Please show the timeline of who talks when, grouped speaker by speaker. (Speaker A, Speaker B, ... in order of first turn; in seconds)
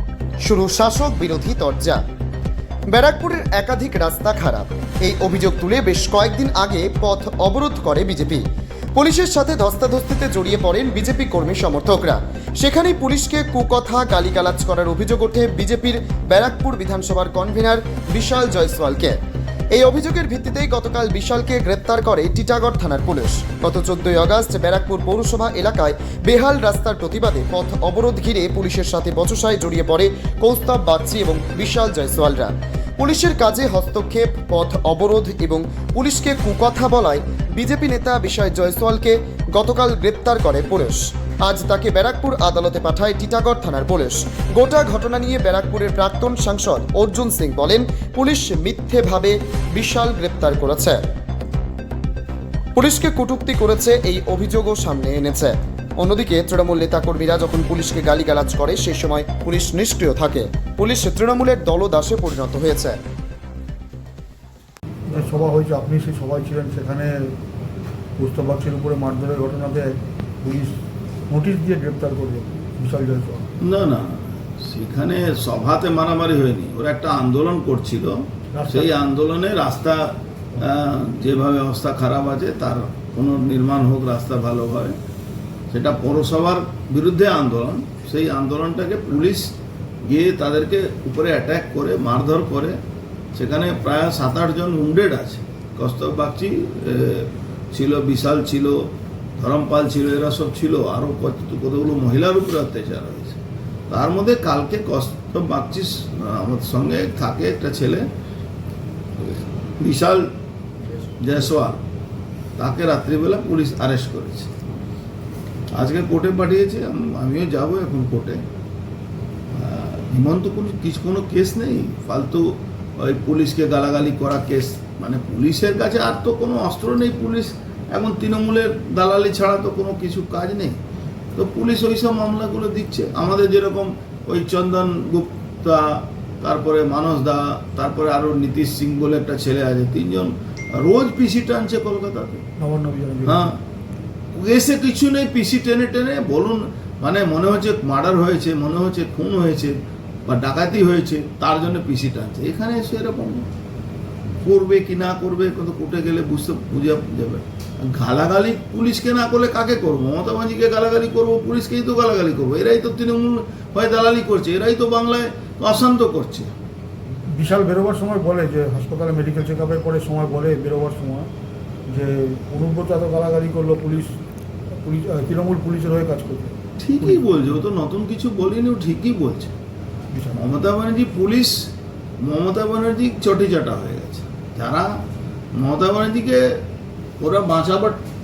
Speaker A: 0.4-2.0, 2.9-19.2, 19.7-51.0, 52.8-63.0
Speaker B: 65.1-67.3, 68.2-70.7, 71.3-73.5, 78.5-78.9, 142.6-143.5, 167.3-171.3, 171.9-174.1, 174.8-176.5, 180.1-180.4
Speaker C: 73.6-85.0, 85.7-89.5, 90.1-92.8, 93.3-108.0, 109.2-110.3, 111.2-111.8, 112.6-114.5, 115.7-118.4, 119.5-130.8, 131.3-142.4, 143.2-143.6, 144.3-153.5, 154.4-166.5, 176.8-179.5, 180.3-181.7, 182.2-185.0, 185.5-186.6, 187.2-188.0